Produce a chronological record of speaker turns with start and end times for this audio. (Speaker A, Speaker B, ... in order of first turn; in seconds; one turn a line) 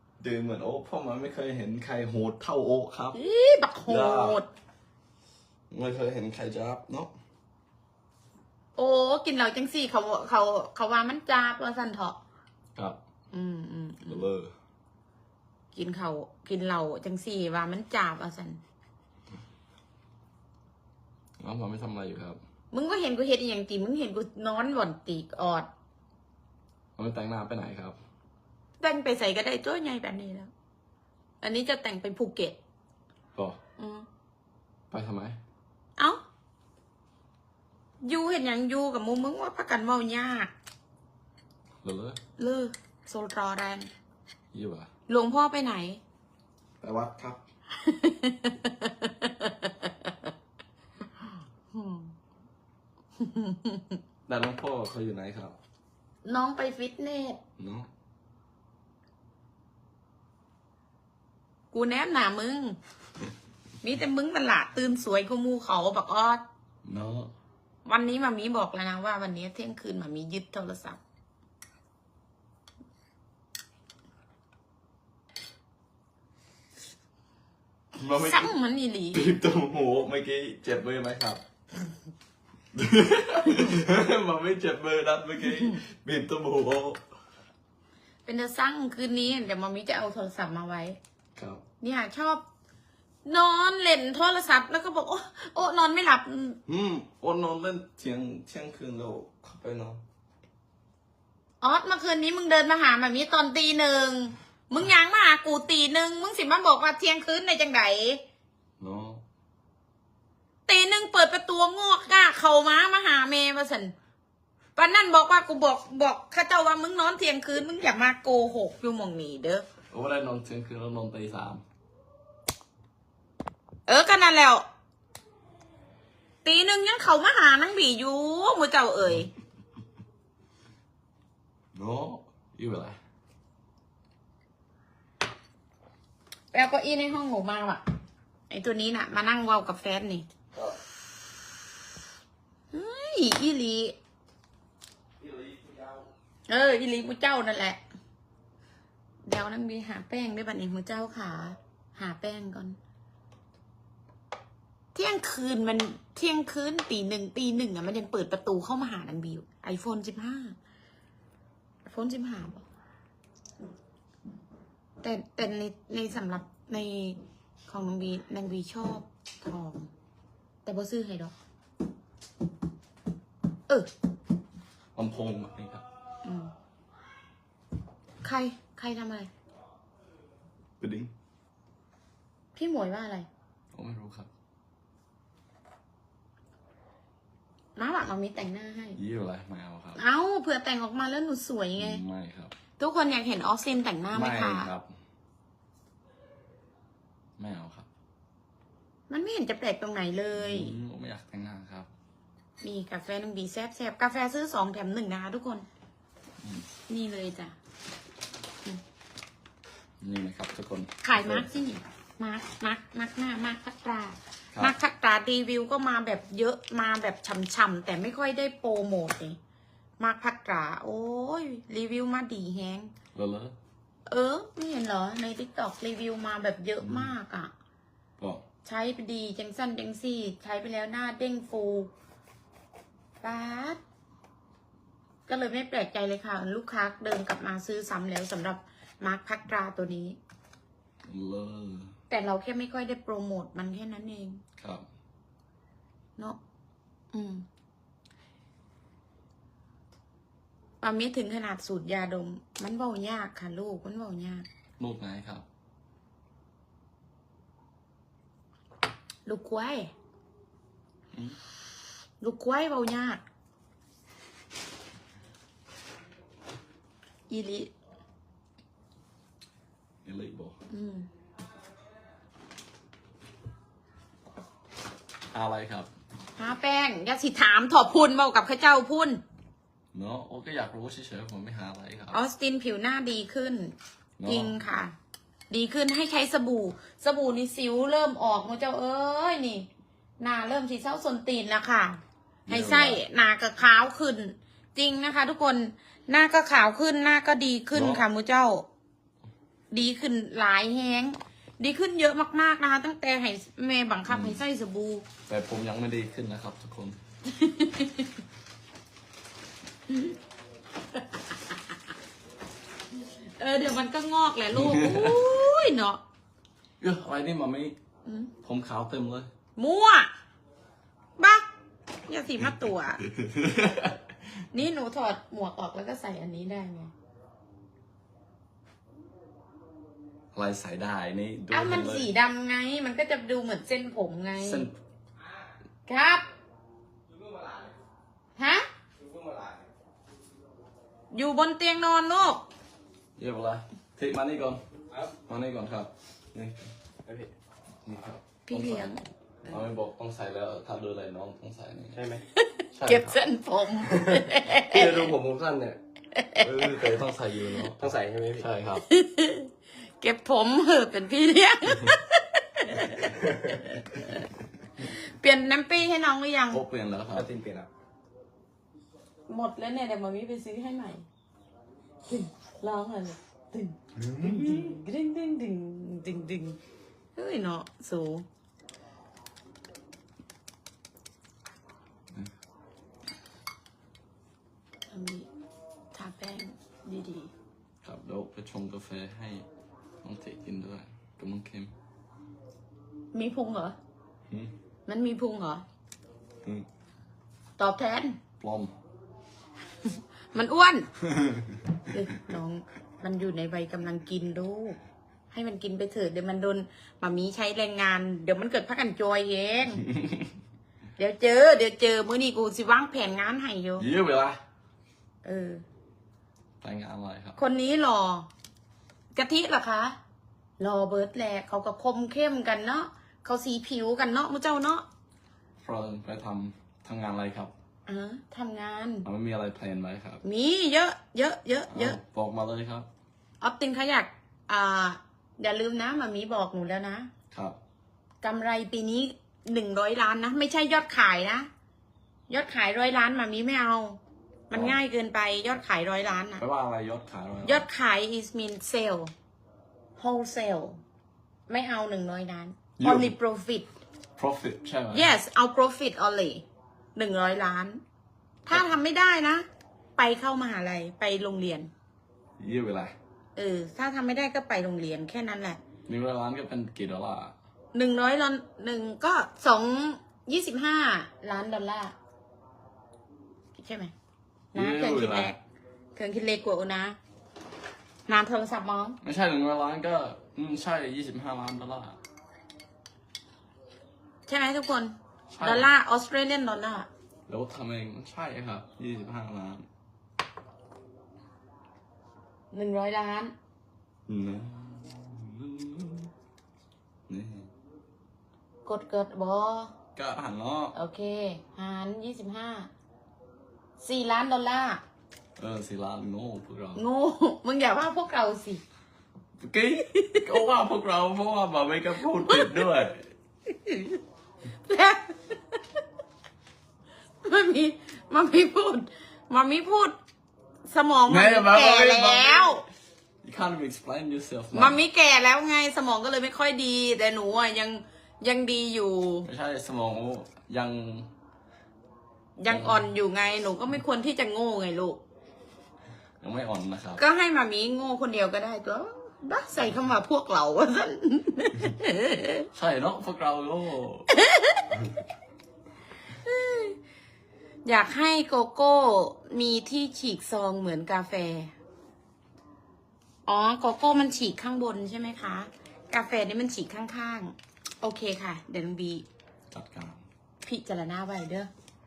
Speaker A: 0.2-3.2
Speaker B: 3.1-4.5
Speaker A: 3.9-4.4
Speaker A: 5.7-7.1
Speaker B: 8.8-12.2
Speaker B: 13.3-14.3
Speaker A: 14.1-14.5
Speaker B: 15.7-18.6
Speaker A: 21.4-22.4
Speaker B: 22.7-25.7
Speaker A: 27.0-28.0
Speaker B: 28.8-30.5
Speaker B: 31.4-32.6
Speaker B: 33.8-34.1
Speaker A: 34.9-35.4
Speaker B: 38.0-40.5
Speaker A: 41.8-42.2
Speaker B: 42.4-43.9
Speaker A: 44.5-44.9
Speaker B: 45.1-46.0
Speaker A: 46.8-47.4
Speaker B: 47.7-50.1
Speaker B: 51.7-52.1
Speaker B: 53.2-54.0
Speaker A: 54.3-55.6
Speaker B: 56.2-57.4
Speaker A: 57.6-57.9
Speaker B: 61.7-62.8
Speaker B: 63.8-66.4
Speaker A: 66.8-67.3
Speaker B: 67.8-71.0
Speaker A: 78.0-78.5
Speaker B: 78.2-79.3
Speaker A: 79.1-81.4
Speaker A: 82.7-87.0
Speaker B: 88.3-91.0
Speaker A: 91.4-91.6
Speaker B: 91.8-92.4
Speaker B: 93.3-96.6
Speaker A: 96.7-100.0
Speaker B: 101.6-108.2
Speaker A: 108.8-109.2
Speaker B: 110.7-113.9
Speaker B: 114.8-119.7
Speaker A: 119.9-121.6
Speaker B: 123.9-124.7
Speaker B: 126.4-129.3
Speaker A: 131.8-133.0
Speaker B: 136.5-137.8
Speaker B: 138.5-140.3
Speaker B: 142.7-144.0
Speaker A: 145.2-146.1
Speaker B: 146.5-147.8
Speaker B: 149.2-152.8
Speaker B: 154.9-160.6
Speaker B: 161.8-162.6
Speaker B: 165.0-169.9
Speaker B: 170.7-171.3
Speaker A: 174.9-175.8
Speaker B: 176.2-176.5
Speaker B: 178.2-179.3
Speaker A: 180.8-181.1
Speaker B: 182.6-183.3
Speaker A: 183.7-184.3
Speaker B: 187.8-189.0
Speaker A: 189.0-190.0
Speaker B: 190.0-192.0
Speaker A: 191.8-192.5
Speaker B: 192.8-194.7
Speaker A: 194.1-194.9
Speaker A: 197.4-197.9
Speaker B: 199.1-200.7
Speaker A: 200.3-201.9
Speaker B: 202.6-205.7
Speaker A: 206.4-206.7
Speaker B: 206.9-207.6
Speaker A: 210.0-211.5
Speaker B: 211.0-219.4
Speaker B: 220.0-222.9
Speaker A: 223.2-223.6
Speaker B: 224.1-227.5
Speaker A: 226.8-227.1
Speaker A: 228.2-228.4
Speaker B: 228.7-231.9
Speaker B: 233.2-233.8
Speaker B: 235.3-240.2
Speaker A: 241.1-241.9
Speaker B: 242.1-244.4
Speaker A: 244.6-244.9
Speaker B: 247.1-247.5
Speaker B: 250.8-254.5
Speaker A: 254.8-255.4
Speaker B: 259.3-259.9
Speaker B: 262.2-263.2
Speaker B: 267.3-267.7
Speaker A: 270.1-270.6
Speaker B: 270.7-271.1
Speaker A: 275.3-275.9
Speaker B: 276.4-279.2
Speaker A: 279.9-282.2
Speaker B: 282.1-284.9
Speaker A: 284.2-284.6
Speaker B: 285.5-289.7
Speaker B: 290.2-298.7
Speaker A: 292.5-293.0
Speaker A: 297.7-298.1
Speaker B: 299.7-305.1
Speaker A: 304.1-304.4
Speaker A: 305.3-307.0
Speaker B: 307.3-308.1
Speaker B: 310.9-311.6
Speaker B: 313.0-316.0
Speaker A: 314.5-315.3
Speaker A: 316.8-317.8
Speaker B: 318.1-318.3
Speaker A: 318.4-319.3
Speaker B: 319.6-320.1
Speaker B: 321.2-321.5
Speaker B: 322.1-323.0
Speaker A: 323.0-324.0
Speaker B: 324.5-326.9
Speaker A: 330.3-332.1
Speaker B: 331.5-334.7
Speaker A: 334.4-334.7
Speaker B: 335.9-336.3
Speaker C: 337.2-337.7
Speaker B: 338.4-338.7
Speaker C: 339.0-339.6
Speaker B: 341.1-342.4
Speaker A: 343.2-346.7
Speaker C: 347.1-347.3
Speaker A: 347.9-349.0
Speaker B: 348.5-349.0
Speaker A: 349.5-352.0
Speaker C: 351.9-352.2
Speaker B: 352.4-355.1
Speaker A: 352.8-353.2
Speaker A: 354.3-354.8
Speaker C: 354.6-355.8
Speaker B: 356.1-356.4
Speaker A: 356.4-358.9
Speaker C: 357.8-358.5
Speaker B: 358.8-364.2
Speaker B: 364.8-366.6
Speaker A: 366.5-367.3
Speaker C: 367.1-367.7
Speaker B: 369.3-371.1
Speaker B: 372.1-376.6
Speaker A: 374.0-374.8
Speaker B: 377.1-378.2
Speaker B: 384.9-385.3
Speaker B: 385.9-387.3
Speaker A: 387.8-389.5
Speaker A: 390.0-391.7
Speaker B: 393.1-393.8
Speaker B: 394.9-395.6
Speaker B: 397.6-398.2
Speaker A: 398.4-398.7
Speaker B: 399.9-400.9
Speaker A: 401.1-401.6
Speaker B: 401.9-404.8
Speaker B: 405.3-409.9
Speaker A: 409.9-410.3
Speaker B: 411.0-413.9
Speaker A: 413.8-414.4
Speaker B: 415.2-415.6
Speaker A: 416.6-417.4
Speaker B: 417.4-418.3
Speaker B: 419.1-420.0
Speaker B: 420.6-424.9
Speaker A: 425.6-427.5
Speaker B: 427.9-429.1
Speaker A: 429.1-430.2
Speaker B: 430.2-432.0
Speaker A: 431.7-432.9
Speaker B: 433.4-437.1
Speaker A: 437.3-437.6
Speaker B: 438.2-441.5
Speaker B: 442.3-446.4
Speaker A: 444.5-444.8
Speaker A: 446.4-447.7
Speaker B: 447.4-449.1
Speaker B: 450.0-450.8
Speaker B: 451.5-453.7
Speaker A: 452.8-453.2
Speaker A: 454.2-455.1
Speaker B: 454.9-456.4
Speaker B: 457.0-457.8
Speaker B: 458.5-459.5
Speaker B: 460.0-461.7
Speaker A: 462.4-462.9
Speaker B: 463.4-465.6
Speaker A: 465.9-467.3
Speaker B: 467.7-471.9
Speaker B: 473.6-473.9
Speaker A: 474.5-475.3
Speaker B: 474.5-475.4
Speaker B: 476.0-477.0
Speaker B: 478.1-479.0
Speaker A: 479.0-482.0
Speaker B: 484.3-486.9
Speaker A: 485.3-485.7
Speaker A: 487.3-489.7
Speaker B: 492.5-493.3
Speaker A: 494.1-496.1
Speaker A: 497.1-497.5
Speaker B: 498.6-499.7
Speaker A: 500.0-500.8
Speaker B: 500.7-502.7
Speaker B: 503.8-504.8
Speaker A: 505.4-506.8
Speaker B: 506.8-508.6
Speaker A: 509.4-513.1
Speaker B: 510.0-510.4
Speaker B: 512.3-512.6
Speaker B: 513.5-514.0
Speaker B: 514.6-515.6
Speaker B: 517.2-520.0
Speaker B: 520.7-522.6
Speaker A: 521.1-522.6
Speaker A: 523.2-524.8
Speaker B: 524.5-529.3
Speaker A: 529.2-531.1
Speaker B: 532.4-535.0
Speaker A: 532.5-532.9
Speaker A: 536.2-537.0
Speaker B: 537.0-542.5
Speaker A: 542.5-544.1
Speaker B: 544.1-544.9
Speaker B: 546.2-546.8
Speaker B: 547.6-551.5
Speaker B: 553.3-559.0
Speaker A: 559.5-560.0
Speaker B: 560.4-561.5